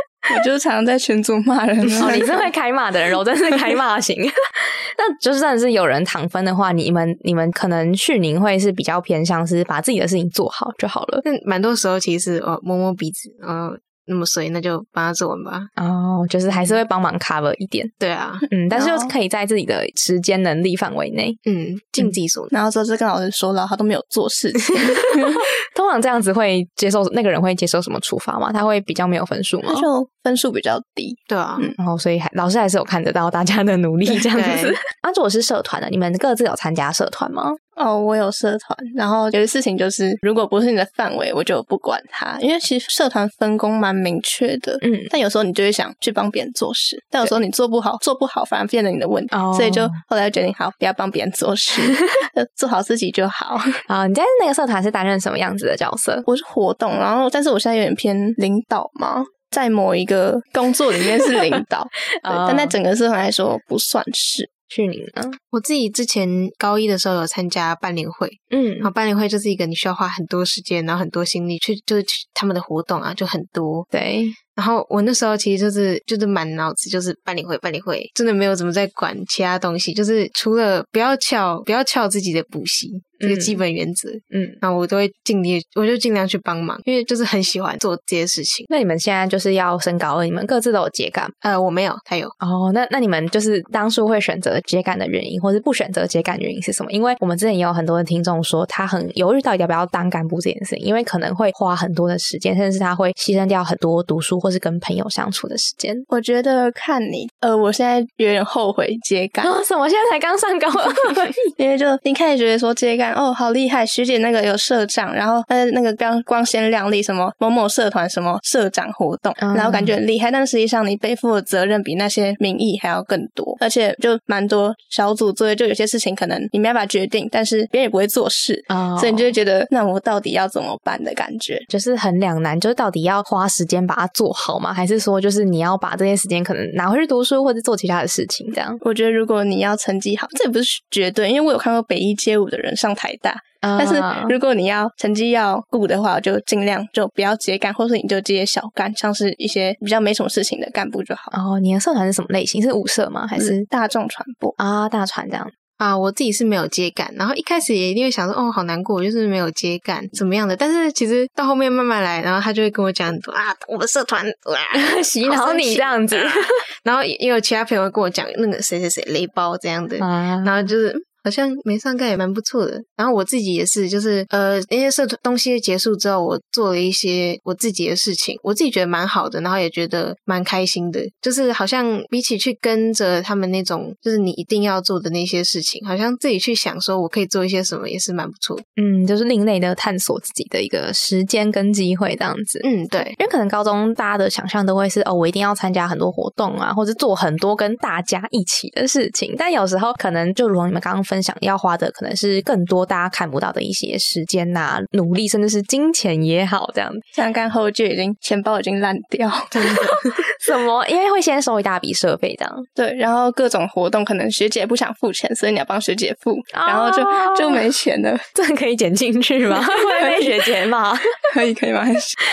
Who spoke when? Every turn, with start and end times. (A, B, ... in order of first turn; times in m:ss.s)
0:00.3-0:02.4 A
0:02.0-0:11.2 B
0:11.2-0:15.7 C
0:15.8-0:17.9 B
0:16.5-0:16.8 C
0:18.0-0:18.4 C
0:18.5-0:21.4 B
0:18.7-0:19.1 A
0:21.4-0:22.5 C
0:22.5-0:25.4 A
0:25.1-0:29.9 B
0:29.6-0:31.8 A
0:31.3-0:31.7 C
0:31.8-0:37.6 B
0:34.3-0:34.8 C
0:37.8-0:53.6 A
0:44.8-0:45.1 B
0:49.3-0:50.0 B
0:53.9-0:56.2 B
0:56.3-1:04.5 A
1:02.2-1:02.7 B
1:04.7-1:05.4 B
1:05.5-1:13.9 C
1:08.5-1:08.9 B
1:13.9-1:14.4 B
1:14.5-1:28.7 C
1:23.2-1:23.6 B
1:24.3-1:24.6 B
1:28.7-1:31.3 B
1:31.4-1:32.3 C
1:32.4-1:46.0 B
1:46.1-1:49.5 A
1:49.4-1:51.4 B
1:51.6-2:11.6 A
1:59.4-1:59.9 B
2:08.7-2:09.3 B
2:11.7-2:18.8 B
2:18.8-2:31.3 A
2:23.6-2:24.4 B
2:31.3-2:33.6 B
2:33.4-2:34.5 A
2:34.6-2:35.5 B
2:35.8-3:08.6 C
2:44.7-2:46.6 B
2:50.0-2:50.6 B
3:08.8-3:27.0 B
3:12.6-3:13.2 C
3:27.1-3:29.5 A
3:29.5-3:30.2 C
3:30.3-3:32.7 B
3:32.8-3:38.2 A
3:36.5-3:37.6 B
3:38.3-3:41.2 B
3:39.5-3:40.3 A
3:41.3-3:42.1 A